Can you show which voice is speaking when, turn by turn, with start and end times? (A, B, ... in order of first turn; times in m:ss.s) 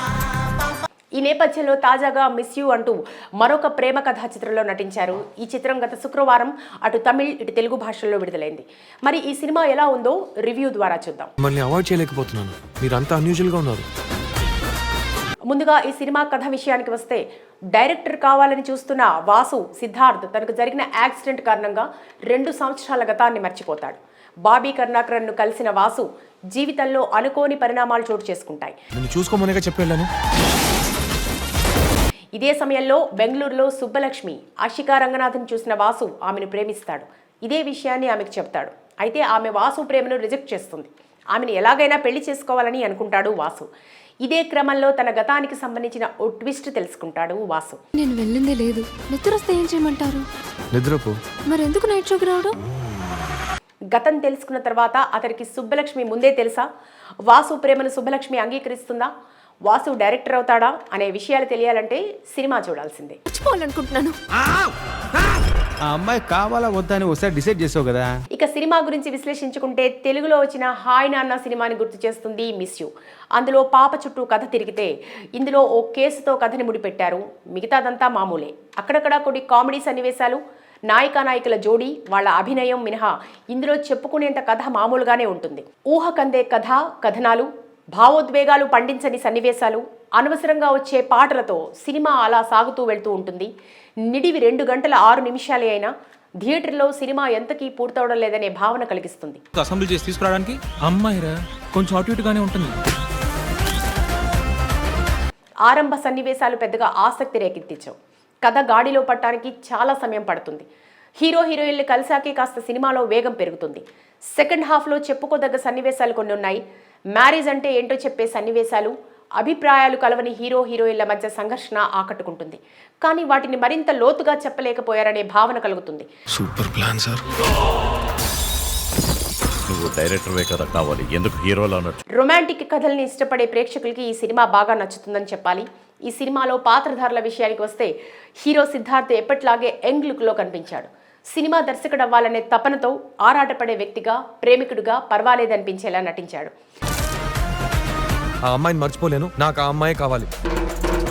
0:01.2-0:11.3 A
0:11.4-0:13.9 B
0:15.5-0:28.8 A
0:29.0-0:30.1 B
0:32.4-0:43.7 A
0:44.2-0:47.8 A
0:48.0-0:50.3 C
0:50.7-0:51.2 B
0:51.5-0:52.6 C
0:53.9-0:56.7 A
0:57.3-0:59.1 A
0:59.7-1:03.2 A
1:03.3-1:04.2 C
1:05.9-1:08.2 D
1:08.3-1:33.5 A
1:34.0-1:39.4 A
1:39.6-1:42.8 E
1:45.7-1:50.7 A
1:51.2-1:56.6 A
1:57.2-2:06.1 A
2:06.4-2:07.2 B
2:09.7-2:12.0 F
2:12.2-2:26.5 A
2:28.5-2:30.3 B